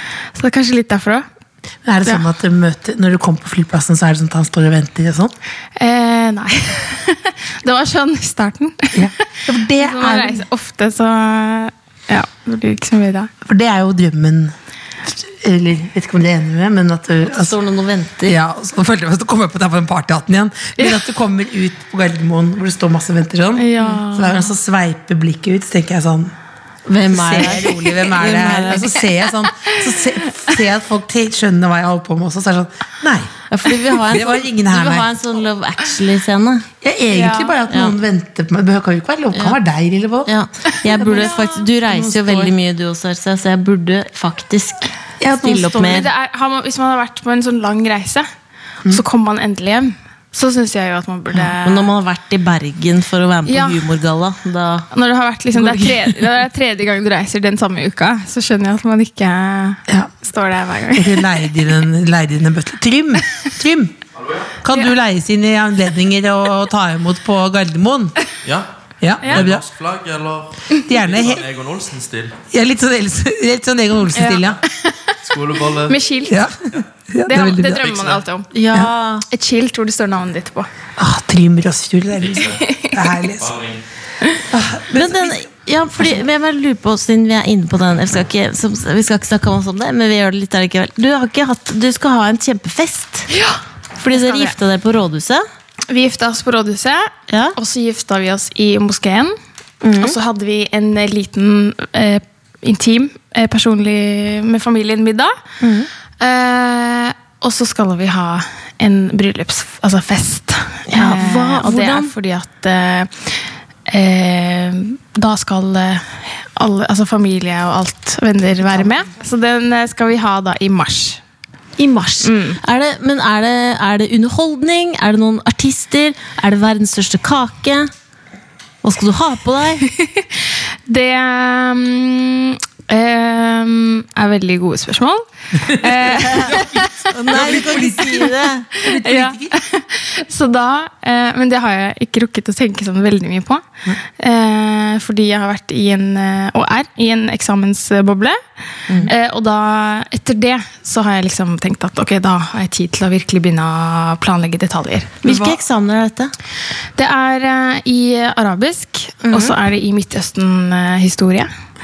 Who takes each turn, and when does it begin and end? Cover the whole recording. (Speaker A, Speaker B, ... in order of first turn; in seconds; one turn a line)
Speaker A: 0.3-1.2
Speaker B: 1.8-5.3
Speaker A: 5.8-9.1
Speaker B: 8.9-10.4
Speaker A: 9.8-13.3
Speaker B: 13.4-14.5
Speaker B: 15.0-17.6
Speaker C: 17.3-18.4
Speaker B: 18.2-26.3
Speaker A: 23.6-24.4
Speaker C: 26.9-29.0
Speaker B: 27.1-33.3
Speaker C: 33.5-36.7
Speaker B: 34.0-35.1
Speaker B: 36.8-40.3
Speaker A: 37.1-37.6
Speaker C: 37.7-37.9
Speaker C: 40.2-46.1
Speaker B: 40.9-42.5
Speaker A: 41.0-41.5
Speaker B: 45.2-46.1
Speaker A: 45.7-48.3
Speaker A: 48.9-51.9
Speaker C: 51.6-54.9
Speaker A: 53.5-53.9
Speaker A: 54.9-61.4
Speaker C: 55.5-56.1
Speaker B: 60.9-63.9
Speaker B: 64.6-68.2
Speaker B: 69.0-69.6
Speaker D: 69.2-72.4
Speaker B: 70.8-71.4
Speaker B: 72.5-74.6
Speaker A: 74.1-75.1
Speaker D: 75.2-76.0
Speaker A: 75.8-76.4
Speaker B: 76.3-77.9
Speaker A: 77.3-78.5
Speaker D: 77.8-78.2
Speaker C: 78.5-79.2
Speaker A: 79.3-80.7
Speaker B: 81.0-83.5
Speaker D: 82.2-82.6
Speaker A: 82.6-83.0
Speaker D: 83.4-83.8
Speaker B: 84.5-85.4
Speaker C: 84.9-93.3
Speaker A: 93.3-94.5
Speaker C: 94.0-95.4
Speaker A: 95.9-99.3
Speaker C: 97.3-97.5
Speaker C: 99.8-100.1
Speaker A: 100.0-105.3
Speaker C: 105.6-105.9
Speaker A: 106.2-121.2
Speaker C: 110.9-112.1
Speaker C: 121.8-127.9
Speaker A: 122.2-122.6
Speaker C: 128.8-129.9
Speaker A: 129.9-137.1
Speaker B: 135.7-139.6
Speaker C: 136.1-138.7
Speaker A: 138.8-148.4
Speaker A: 149.0-155.2
Speaker C: 155.2-156.3
Speaker B: 155.2-155.6
Speaker A: 156.9-161.5
Speaker C: 159.2-159.5